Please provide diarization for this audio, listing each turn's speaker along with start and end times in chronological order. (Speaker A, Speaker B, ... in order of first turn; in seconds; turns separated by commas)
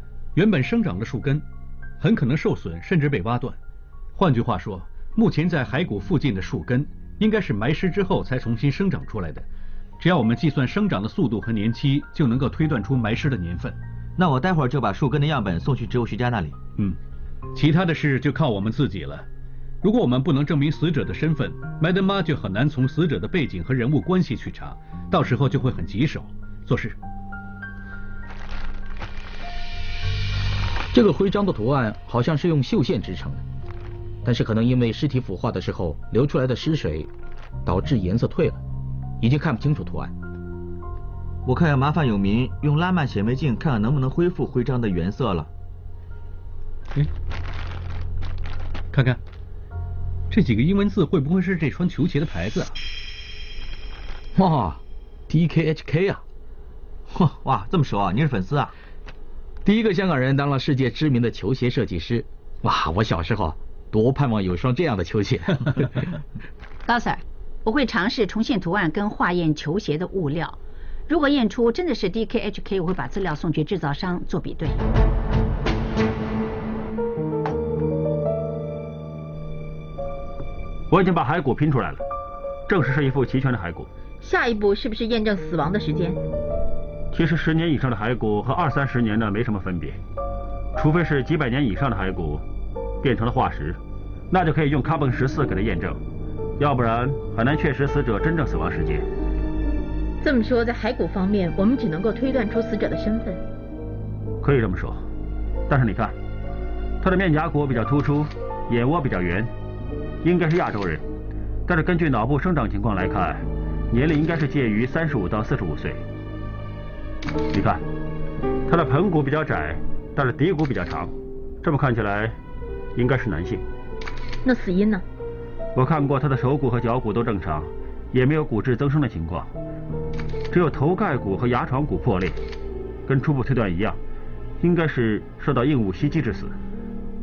Speaker A: 0.3-1.4, Speaker A: 2.0-3.6, Speaker A: 4.1-9.4, Speaker A: 10.0-13.8, Speaker B: 14.2-16.6, Speaker A: 17.5-19.2, Speaker A: 19.8-27.0, Speaker C: 30.9-33.4, Speaker C: 34.2-37.1, Speaker C: 37.6-38.6, Speaker C: 39.2-40.1, Speaker B: 41.5-45.5, Speaker A: 48.9-49.2, Speaker A: 50.3-52.8, Speaker C: 54.4-56.2, Speaker B: 57.1-58.7, Speaker C: 59.6-66.0, Speaker D: 66.8-74.8, Speaker E: 80.9-82.0, Speaker E: 82.7-83.9, Speaker F: 84.2-86.2, Speaker E: 87.1-90.0, Speaker E: 90.7-92.4, Speaker E: 93.0-96.0, Speaker E: 96.6-99.1, Speaker F: 100.2-103.4, Speaker E: 104.4-105.0, Speaker E: 105.7-106.2, Speaker E: 107.0-109.5, Speaker E: 110.2-111.0, Speaker E: 111.7-116.0, Speaker E: 117.5-117.8, Speaker E: 118.7-122.4, Speaker E: 122.9-123.6, Speaker F: 124.4-125.0, Speaker E: 125.7-129.5, Speaker E: 130.5-132.4, Speaker E: 133.1-134.0, Speaker E: 134.6-136.5